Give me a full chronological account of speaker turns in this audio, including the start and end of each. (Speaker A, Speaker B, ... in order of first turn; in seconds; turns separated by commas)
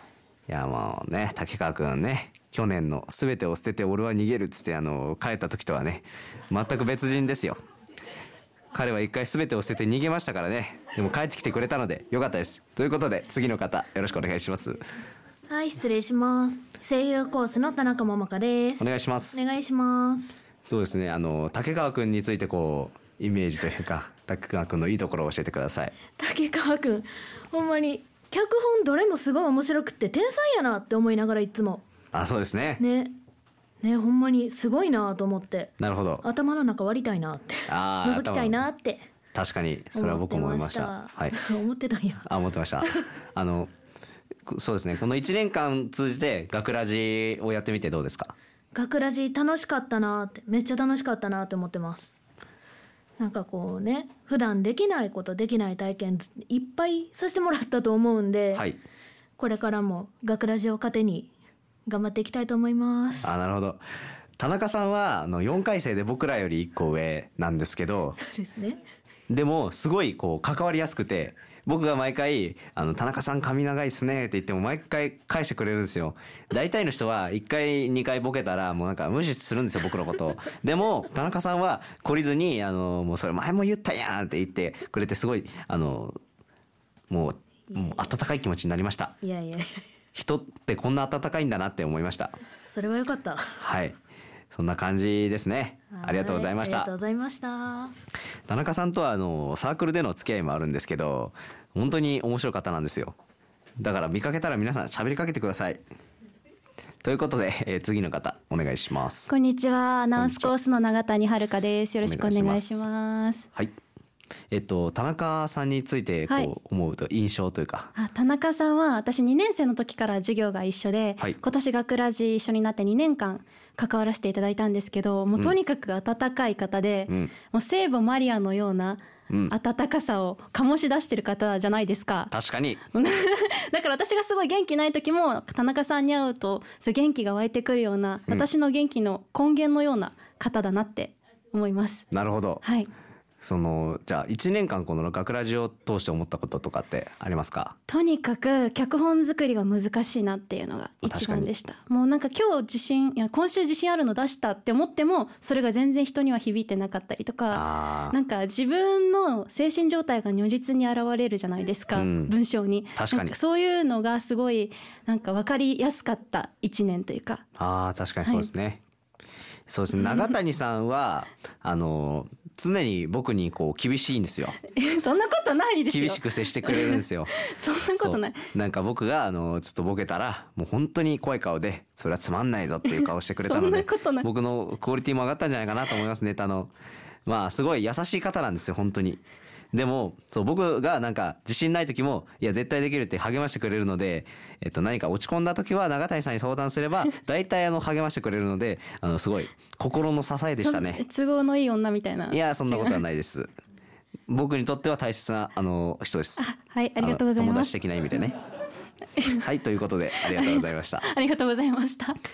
Speaker A: 0.5-7.6, Speaker A: 8.7-14.8, Speaker B: 15.5-20.4, Speaker A: 18.8-19.4, Speaker A: 20.6-25.9, Speaker B: 26.1-31.8, Speaker A: 32.1-32.8, Speaker B: 32.8-33.1, Speaker B: 33.8-39.0, Speaker A: 35.8-36.2, Speaker A: 37.7-38.6, Speaker A: 39.3-41.4, Speaker B: 39.9-42.3, Speaker A: 42.2-43.7, Speaker A: 44.5-48.3, Speaker B: 48.7-52.2, Speaker B: 53.2-58.7, Speaker B: 59.4-61.3, Speaker B: 61.9-63.3, Speaker A: 63.2-63.8, Speaker A: 64.4-68.2, Speaker B: 68.2-68.8, Speaker A: 69.3-86.2, Speaker A: 87.1-89.2, Speaker B: 89.2-89.8, Speaker A: 90.1-92.3, Speaker B: 92.7-93.7, Speaker A: 93.6-93.9, Speaker A: 94.5-96.9, Speaker B: 95.9-97.9, Speaker A: 98.5-103.2, Speaker A: 103.8-105.8, Speaker A: 107.0-109.3, Speaker C: 109.3-113.5, Speaker A: 110.2-110.5, Speaker A: 112.0-112.9, Speaker A: 114.5-117.9, Speaker C: 118.0-132.3, Speaker A: 129.3-129.5, Speaker A: 132.3-132.8, Speaker C: 132.9-142.1, Speaker A: 142.1-142.6, Speaker C: 142.6-142.9, Speaker A: 143.4-147.8, Speaker C: 147.9-167.4, Speaker A: 151.0-151.5, Speaker A: 157.5-158.2, Speaker A: 161.9-162.3, Speaker A: 162.9-163.3, Speaker A: 167.6-168.8, Speaker C: 168.2-168.5, Speaker A: 169.7-174.6, Speaker C: 169.9-170.3, Speaker C: 174.7-178.5, Speaker A: 175.9-177.3, Speaker A: 178.0-186.7, Speaker C: 182.8-184.3, Speaker A: 187.2-189.2, Speaker A: 189.7-201.0, Speaker C: 200.6-203.0, Speaker A: 202.3-203.5, Speaker A: 204.3-208.3, Speaker C: 206.4-207.7, Speaker A: 209.4-211.1, Speaker C: 210.2-212.2